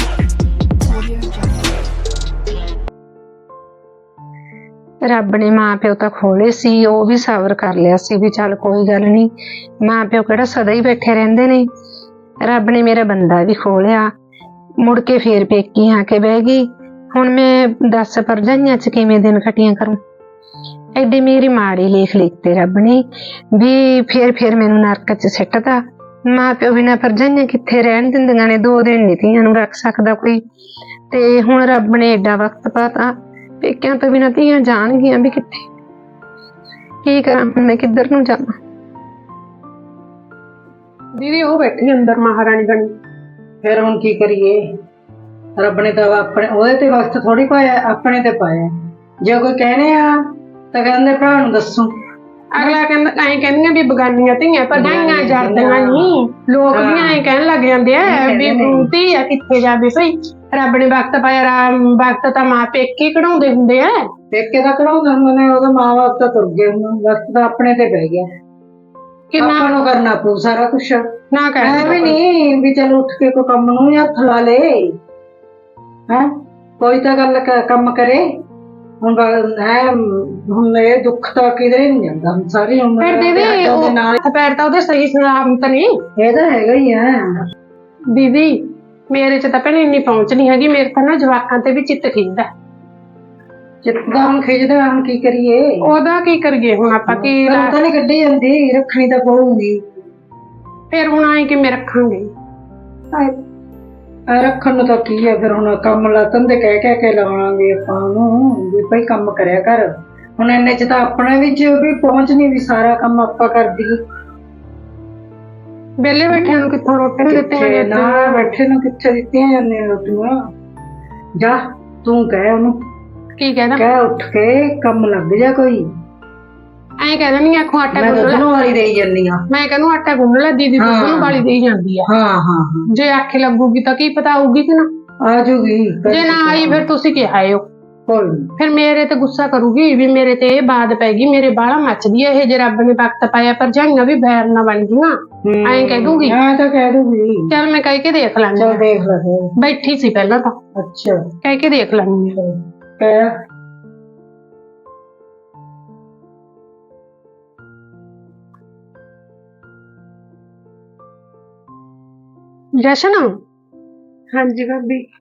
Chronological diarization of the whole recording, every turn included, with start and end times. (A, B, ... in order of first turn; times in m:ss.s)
0:05.0-0:11.7 A
0:12.4-0:14.1 A
0:14.8-0:20.0 A
0:21.0-0:30.4 A
0:31.1-0:35.7 A
0:37.0-0:38.5 A
0:41.2-0:42.9 B
0:43.6-0:44.6 C
0:45.6-0:52.0 C
0:52.5-1:04.0 B
0:54.7-0:56.1 C
0:56.7-0:57.2 C
0:58.0-0:58.9 C
1:04.3-1:08.3 C
1:09.3-1:09.7 B
1:09.4-1:11.1 C
1:11.3-1:12.2 B
1:11.6-1:14.9 C
1:16.1-1:18.3 C
1:19.0-1:24.2 C
1:23.0-1:25.9 B
1:26.2-1:27.4 C
1:28.1-1:32.5 B
1:33.8-1:35.8 C
1:35.8-1:37.8 B
1:37.1-1:39.9 C
1:40.9-1:42.3 B
1:44.3-1:54.0 C
1:56.0-1:58.5 B
1:56.3-1:56.7 C
1:57.2-2:00.4 C
2:01.4-2:02.7 C
2:03.4-2:03.8 B
2:03.8-2:05.8 C
2:07.0-2:08.5 B
2:07.9-2:09.4 C
2:09.5-2:12.1 B
2:10.8-2:11.4 C
2:12.0-2:12.9 C
2:12.9-2:14.9 B
2:15.2-2:16.8 C
2:16.1-2:17.7 B
2:18.1-2:18.5 C
2:18.6-2:26.4 B
2:25.4-2:27.5 C
2:27.5-2:28.8 B
2:28.5-2:29.5 C
2:29.6-2:30.5 B
2:30.7-2:31.3 C
2:31.4-2:32.4 B
2:32.4-2:33.4 C
2:42.8-2:43.3 B
2:44.3-2:45.0 A